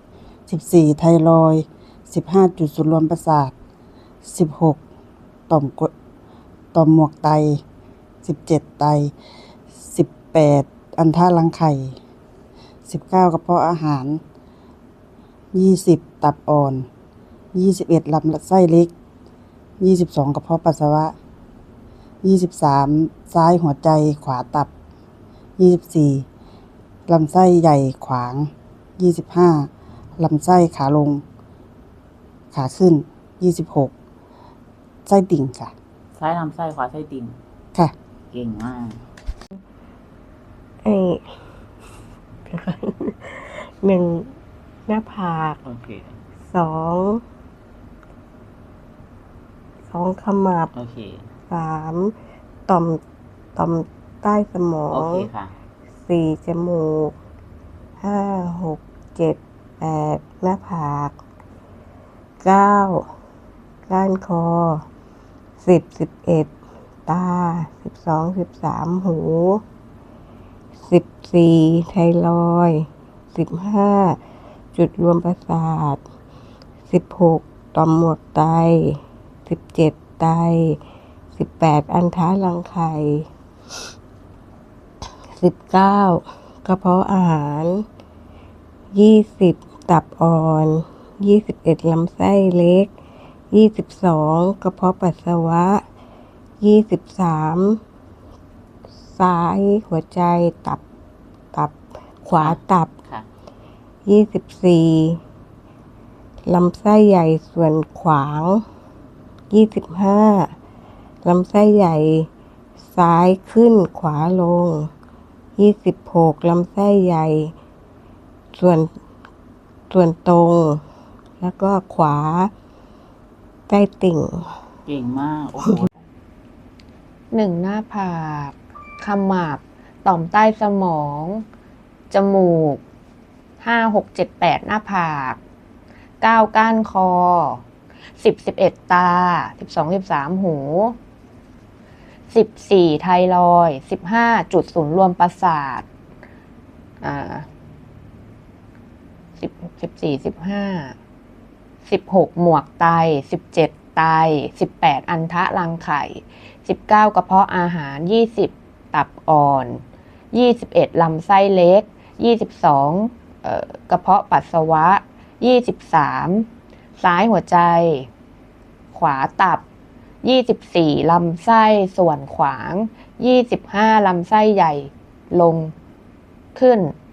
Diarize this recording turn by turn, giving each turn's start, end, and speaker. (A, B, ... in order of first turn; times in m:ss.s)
0:00.5-0:03.5 A
0:04.2-0:04.8 A
0:05.5-0:05.9 A
0:06.7-0:07.6 A
0:08.2-0:09.1 A
0:09.9-0:12.0 A
0:12.9-0:14.2 A
0:15.5-0:16.9 A
0:17.5-0:18.9 A
0:19.8-0:21.2 A
0:22.2-0:24.7 A
0:25.6-0:26.2 A
0:27.1-0:31.2 A
0:32.5-0:33.9 A
0:35.1-0:35.7 A
0:36.2-0:37.4 B
0:38.3-0:39.0 B
0:40.8-0:41.2 C
0:42.5-0:44.3 C
0:44.9-0:45.6 C
0:45.6-0:46.2 B
0:46.5-0:47.2 C
0:49.9-0:50.7 C
0:50.7-0:51.3 B
0:51.5-0:52.1 C
0:52.7-0:53.0 C
0:53.6-0:55.2 C
0:54.9-0:55.5 B
0:56.1-0:57.1 C
0:58.0-1:01.2 C
1:02.4-1:03.1 C
1:03.9-1:04.8 C
1:05.6-1:06.5 C
1:07.1-1:09.6 C
1:10.9-1:14.2 C
1:14.7-1:16.0 C
1:16.9-1:20.8 C
1:21.4-1:23.3 C
1:25.3-1:27.8 C
1:28.9-1:32.9 C
1:33.5-1:35.8 C
1:36.6-1:37.8 C
1:39.1-1:40.8 C
1:42.3-1:42.9 C
1:42.3-1:43.2 B
1:44.1-1:45.2 C
1:46.4-1:48.6 C
1:49.5-1:50.5 C
1:51.2-1:52.3 C
1:52.9-1:54.9 C
1:55.6-1:57.5 C
1:58.5-1:58.9 C
1:59.9-2:00.8 C
2:01.4-2:02.5 C
2:03.7-2:04.5 C
2:04.9-2:05.9 B
2:07.3-2:11.5 D
2:12.1-2:12.8 D
2:13.6-2:15.4 D
2:16.2-2:17.6 D
2:18.2-2:21.0 D
2:22.3-2:25.8 D
2:27.0-2:27.5 D
2:29.4-2:31.0 D
2:31.9-2:48.1 D
2:48.9-2:49.6 D
2:50.2-2:55.7 D
2:56.6-2:57.0 D